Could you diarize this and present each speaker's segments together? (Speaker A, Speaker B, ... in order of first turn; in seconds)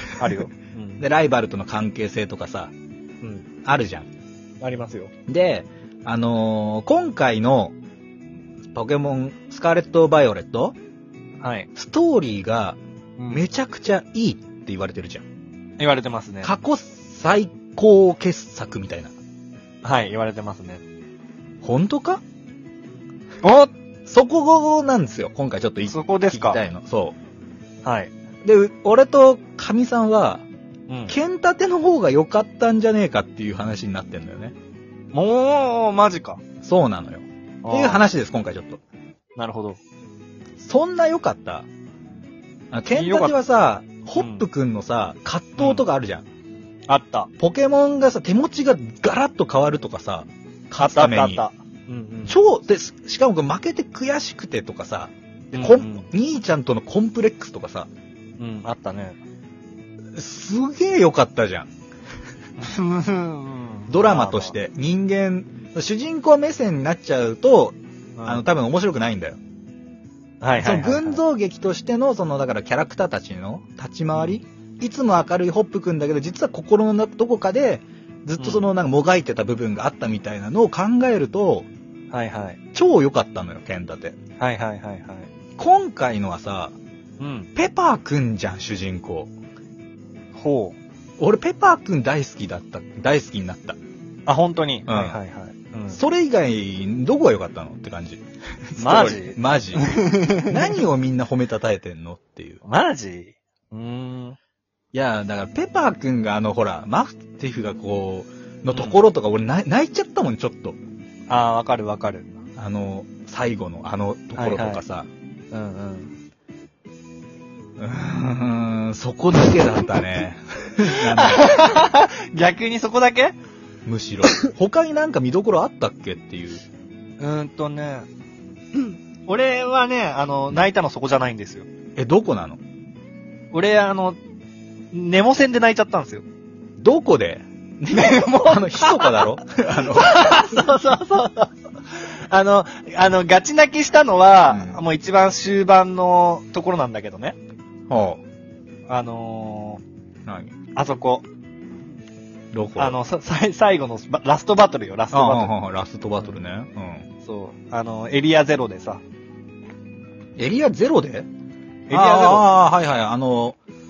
Speaker A: 0.2-1.0, 3.2-3.5, 4.6-5.1, 11.4-11.7, 13.2-13.4, 15.8-16.5, 19.8-20.8, 23.4-23.7, 25.9-26.6, 27.8-28.1, 30.9-31.1, 35.1-36.4, 37.6-38.0, 39.4-39.8, 42.9-43.4, 44.1-44.5, 45.6-45.8, 46.9-47.3, 50.8-52.4, 55.5-56.1, 58.4-59.2, 62.6-64.5, 68.2-68.4, 70.4-71.2, 78.4-78.7, 82.1-82.6, 84.4-85.3, 87.2-87.5, 90.3-90.8, 94.3-96.0, 98.8-100.8, 102.6-104.4, 108.7-109.0, 111.3-112.3, 114.4-114.8, 115.5-116.1, 120.8-123.4, 127.2-128.1, 128.7-131.7, 133.5-134.2, 134.9-136.2, 137.9-147.4, 148.9-149.8, 150.7-151.3, 152.8-155.5, 157.2-159.0, 161.9-162.5
Speaker B: 1.0-2.7, 3.6-4.1, 5.3-7.8, 8.7-10.8, 11.8-12.8, 13.3-15.2, 16.4-19.1, 21.6-22.2, 24.1-27.2, 28.4-30.4, 31.1-34.5, 36.6-38.8, 40.6-41.7, 42.7-46.3, 47.4-51.4, 52.3-57.9, 60.1-61.7, 63.9-69.4, 70.6-81.7, 82.7-84.2, 85.6-86.8, 87.5-89.3, 91.2-93.8, 94.9-95.2, 95.9-102.6, 104.9-110.8, 112.6-115.1, 117.8-121.5, 123.9-126.6, 132.0-132.6, 136.8-140.3, 144.5-144.8, 147.9-148.2, 150.3-150.5, 152.5-153.0, 155.1-157.1, 160.4-161.3, 161.9-163.6